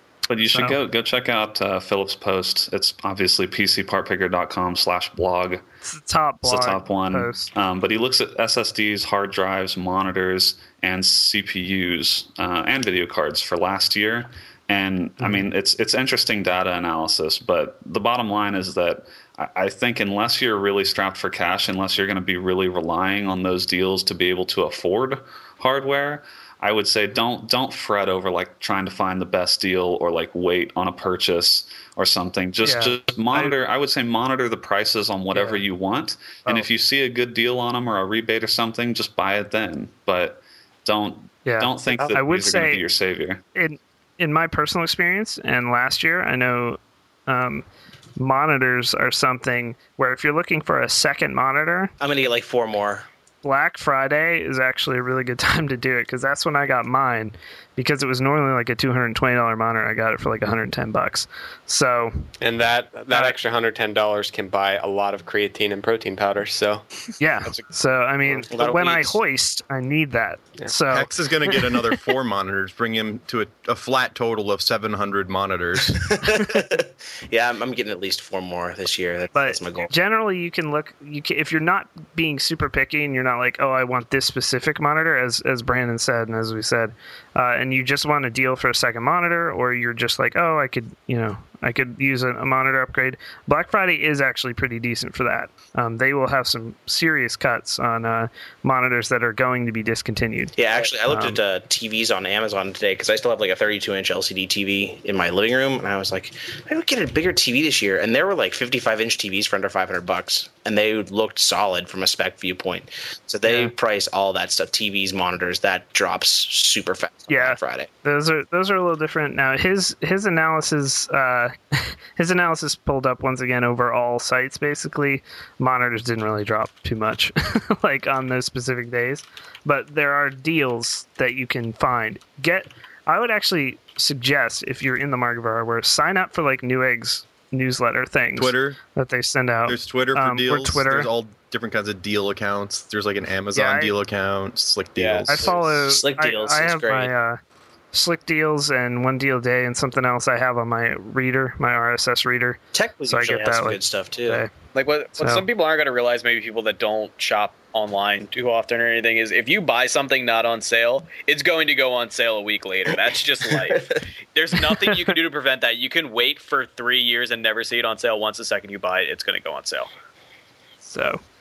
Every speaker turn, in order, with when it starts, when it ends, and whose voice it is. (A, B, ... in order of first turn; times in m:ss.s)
0:00.3-0:05.6 A
0:00.4-0:00.8 B
0:05.8-0:07.5 B
0:06.4-0:43.4 A
0:15.2-0:15.4 B
0:32.6-0:33.5 B
0:35.3-0:35.6 B
0:41.5-0:42.8 B
0:43.6-0:47.6 B
0:48.2-0:51.9 B
0:52.0-0:53.1 C
0:53.4-1:02.3 B
1:02.4-1:06.8 D
1:03.1-1:03.4 B
1:07.2-1:12.0 B
1:08.5-1:09.2 C
1:10.9-1:16.2 E
1:16.0-1:19.9 C
1:19.3-1:41.4 B
1:40.6-1:57.9 C
1:53.4-1:53.7 B
1:57.3-2:21.1 B
2:18.4-2:18.8 E
2:19.7-2:25.7 E
2:23.5-2:23.9 B
2:25.0-2:25.6 F
2:25.3-2:27.4 B
2:25.8-2:27.1 C
2:27.9-2:34.5 B
2:32.7-2:34.4 C
2:34.7-2:49.9 F
2:35.2-2:35.4 B
2:43.7-2:44.0 C
2:50.8-2:51.2 B